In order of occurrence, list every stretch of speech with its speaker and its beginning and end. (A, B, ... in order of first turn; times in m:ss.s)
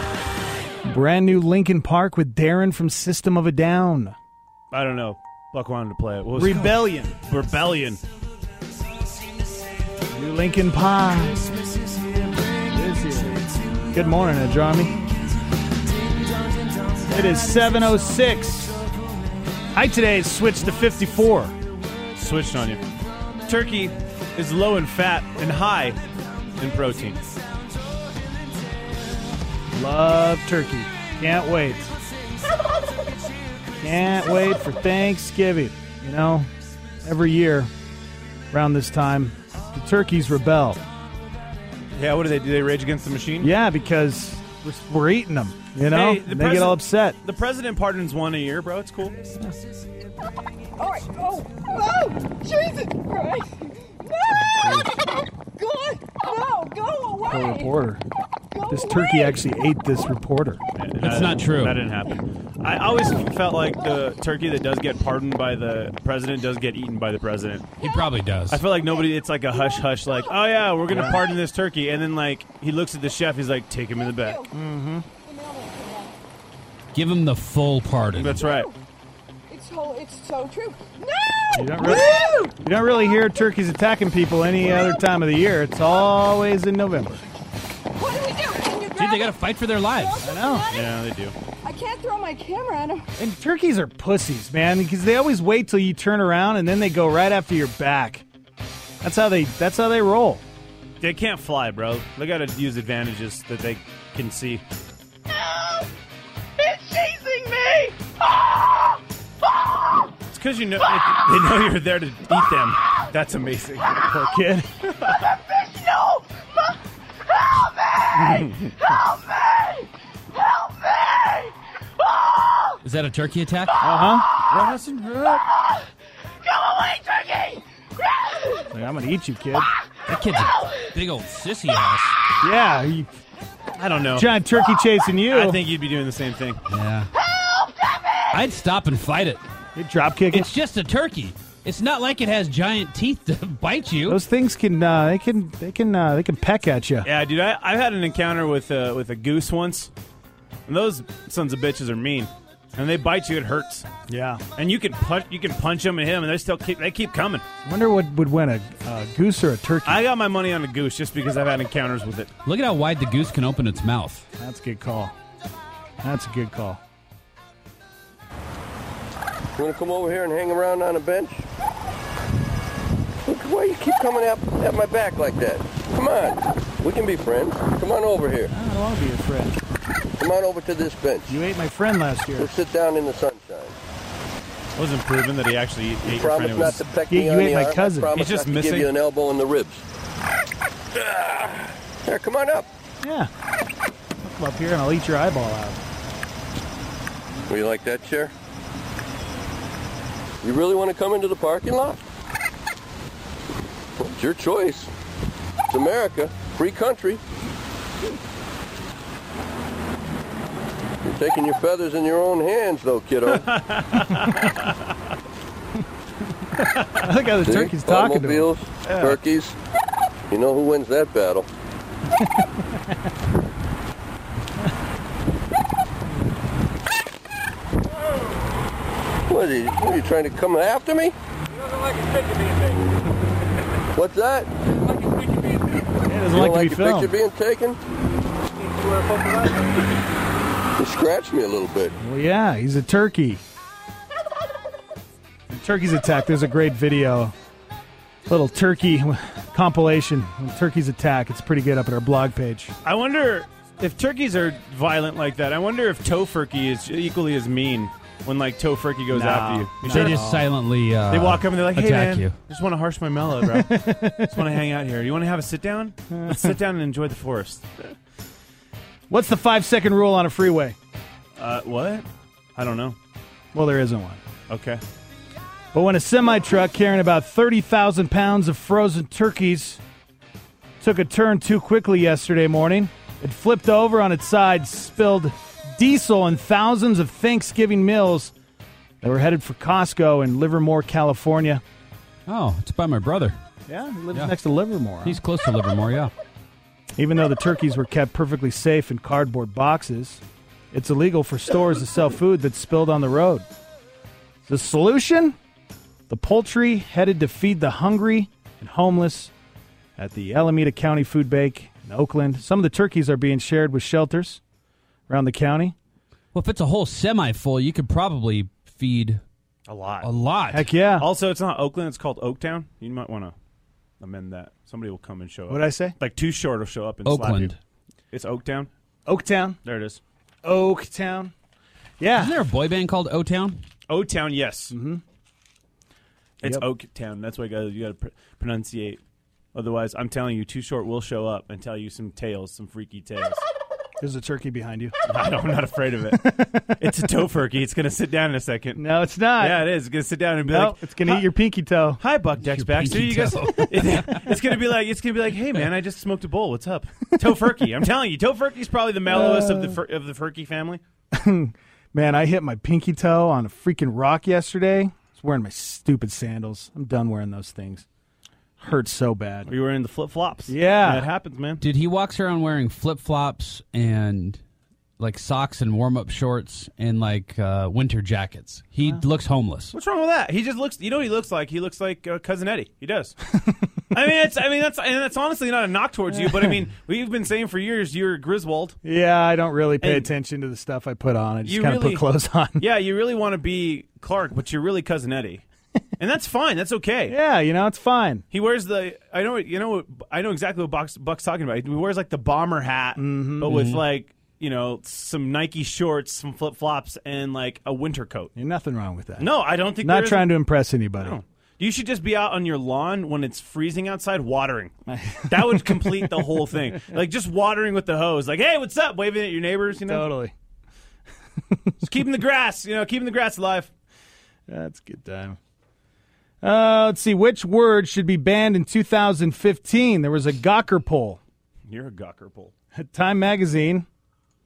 0:00.8-0:04.2 A
0:04.7-0:08.0 B
0:06.3-0:07.2 A
0:10.1-0:11.5 A
0:12.5-0:15.0 A
0:16.9-0:18.8 A
0:19.7-0:21.5 A
0:22.2-0:22.9 B
0:23.5-0:26.0 B
0:26.6-0:27.2 B
0:29.7-0:31.9 A
0:33.7-0:36.5 A
0:37.0-0:37.7 A
0:38.5-0:40.8 A
0:41.9-0:43.5 B
0:43.4-0:47.2 A
0:45.8-0:49.2 B
0:50.8-0:57.7 C
0:54.5-0:54.9 A
0:57.2-0:58.0 A
0:58.5-0:59.2 C
0:58.7-1:00.6 A
1:00.8-1:07.7 B
1:01.0-1:01.8 D
1:07.8-1:08.7 D
1:08.5-1:14.4 B
1:10.9-1:11.2 A
1:14.2-1:14.5 C
1:14.5-1:15.1 A
1:15.3-1:16.2 C
1:16.9-1:18.6 D
1:18.1-1:18.7 B
1:19.5-1:22.5 C
1:21.6-1:27.2 A
1:28.0-1:29.4 C
1:28.9-1:30.3 D
1:30.0-1:30.9 C
1:30.2-1:30.7 A
1:30.7-1:31.4 B
1:31.6-1:33.1 C
1:33.2-1:38.3 A
1:39.0-1:40.4 A
1:41.0-1:44.6 B
1:50.3-1:54.1 B
1:54.1-1:54.8 A
1:58.1-1:59.0 B
2:02.8-2:03.9 D
2:03.8-2:04.3 A
2:04.5-2:05.4 B
2:08.7-2:09.7 A
2:10.1-2:12.2 D
2:12.4-2:13.1 A
2:13.8-2:14.3 B
2:14.1-2:15.6 A
2:15.3-2:16.6 B
2:16.7-2:17.1 D
2:18.3-2:19.4 D
2:19.8-2:20.5 A
2:20.3-2:24.2 D
2:24.1-2:27.1 A
2:27.0-2:29.9 B
2:30.7-2:33.9 B
2:34.1-2:34.4 A
2:34.6-2:37.4 B
2:37.6-2:40.0 A
2:39.9-2:42.3 B
2:42.4-2:44.2 D
2:44.4-2:45.2 A
2:46.0-2:46.8 A
2:49.6-2:51.5 E
2:53.3-2:58.5 E
2:58.5-2:59.6 A
3:00.2-3:01.3 E
3:01.3-3:02.6 A
3:02.4-3:03.8 E
3:04.8-3:06.8 B
3:06.1-3:09.8 E
3:06.6-3:08.1 A
3:08.1-3:08.9 B
3:11.0-3:12.7 E
3:13.0-3:13.3 A
3:14.2-3:15.8 A
3:17.5-3:18.3 E
3:20.4-3:22.0 E
3:24.0-3:24.9 E
3:25.7-3:27.2 E
3:31.0-3:33.5 E
3:33.7-3:34.7 B
3:33.9-3:34.4 A
3:36.6-3:38.5 A
3:37.4-3:39.6 E
3:38.9-3:39.2 B
3:40.3-3:41.5 E
3:42.2-3:42.6 A
3:49.3-3:51.2 E
3:53.9-3:54.5 E
3:56.0-3:57.2 A
3:56.3-3:57.8 E
4:00.8-4:01.9 E
4:02.0-4:03.4 A
4:05.5-4:07.3 A
4:08.3-4:12.7 A
4:12.8-4:20.2 B
4:19.1-4:20.5 A
4:19.8-4:22.4 D
4:21.1-4:27.7 B
4:23.4-4:24.4 A
4:26.1-4:26.5 A
4:29.1-4:30.8 A
4:31.4-4:33.0 B
4:33.5-4:34.2 A
4:34.5-4:34.8 B
4:35.7-4:39.8 A
4:40.8-4:48.3 A
4:49.0-4:51.6 A
4:52.3-4:53.4 D
4:53.7-4:55.2 A
4:55.0-4:56.1 D
4:57.0-5:03.5 A
5:04.4-5:05.4 A
5:06.1-5:09.3 A
5:10.0-5:14.4 A
5:15.1-5:15.8 A
5:16.3-5:19.2 D
5:19.7-5:20.1 B
5:20.0-5:20.7 D
5:20.5-5:21.1 A
5:21.0-5:23.3 B
5:24.0-5:27.6 B
5:25.5-5:26.0 A
5:27.0-5:27.6 D
5:28.1-5:28.7 B
5:29.1-5:29.6 A
5:29.6-5:30.0 B
5:30.4-5:31.3 A
5:32.0-5:32.4 A
5:32.1-5:33.6 D
5:33.9-5:34.7 B
5:34.7-5:35.0 A
5:36.4-5:39.0 B
5:39.6-5:43.4 B
5:44.0-5:45.0 A
5:45.1-5:48.8 B
5:46.1-5:46.7 A
5:48.8-5:49.7 A
5:49.4-5:51.2 B
5:50.5-5:52.0 A
5:52.0-6:00.8 B
5:52.4-5:54.2 D
5:59.1-5:59.8 A
6:01.1-6:07.9 A
6:08.6-6:09.5 A
6:09.5-6:11.6 B
6:10.5-6:11.1 A
6:11.6-6:14.4 D
6:15.0-6:19.7 D
6:19.7-6:23.2 B
6:23.9-6:28.8 B
6:28.8-6:32.6 A
6:29.8-6:30.1 B
6:31.4-6:32.0 B
6:32.6-6:35.4 B
6:36.0-6:37.2 B
6:37.1-6:38.2 A
6:38.3-6:48.3 B
6:43.0-6:43.6 A
6:43.4-6:43.8 D
6:48.4-6:51.2 A
6:49.2-6:50.4 B
6:51.0-6:54.7 B
6:54.9-6:56.2 A
6:55.3-7:00.1 B
6:59.8-7:00.3 A
7:01.8-7:03.7 B
7:04.5-7:05.4 A
7:06.4-7:11.2 A
7:11.7-7:12.5 B
7:12.8-7:13.9 A